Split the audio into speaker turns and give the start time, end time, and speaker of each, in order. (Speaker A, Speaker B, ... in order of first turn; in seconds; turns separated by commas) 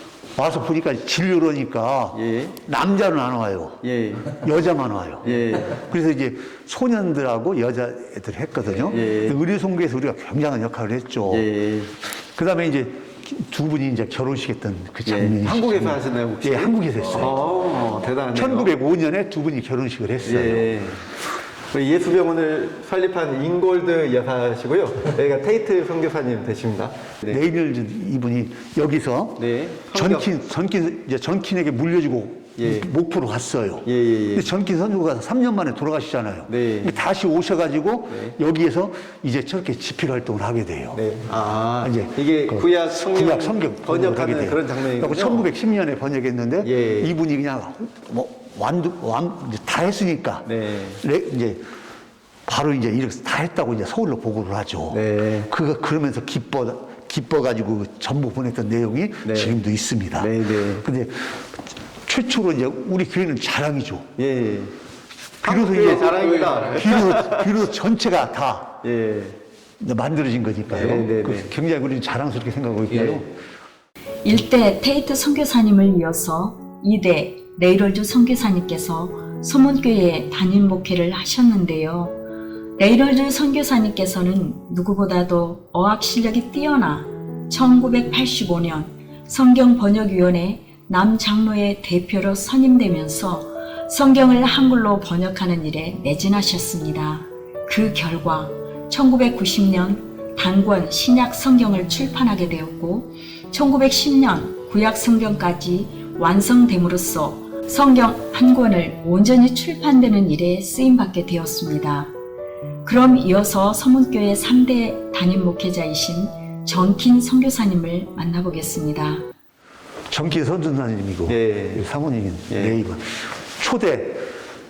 Speaker A: 0.4-11.5, Speaker B: 2.1-2.5, Speaker B: 3.8-4.4, Speaker B: 5.2-5.8, Speaker B: 8.7-9.3, Speaker B: 11.3-11.9, Speaker A: 12.2-17.3, Speaker B: 15.1-18.7, Speaker A: 18.3-20.7, Speaker B: 20.2-21.1, Speaker B: 21.7-27.4, Speaker A: 27.3-41.0, Speaker B: 29.4-30.3, Speaker B: 32.6-32.9, Speaker B: 33.9-34.5, Speaker B: 36.5-37.0, Speaker B: 38.1-38.4, Speaker B: 40.9-45.5, Speaker A: 41.8-51.6, Speaker B: 46.6-47.1, Speaker B: 50.5-51.0, Speaker A: 52.5-64.1, Speaker B: 54.9-55.5, Speaker B: 59.2-59.6, Speaker B: 60.2-60.8, Speaker B: 64.2-64.8, Speaker B: 65.4-67.5, Speaker A: 65.4-68.8, Speaker B: 68.8-69.4, Speaker A: 69.8-73.3, Speaker B: 70.7-71.5, Speaker B: 72.9-73.2, Speaker C: 74.2-82.2, Speaker C: 82.8-112.1, Speaker C: 112.8-119.3, Speaker A: 120.1-124.3, Speaker B: 121.3-121.8, Speaker B: 122.5-122.8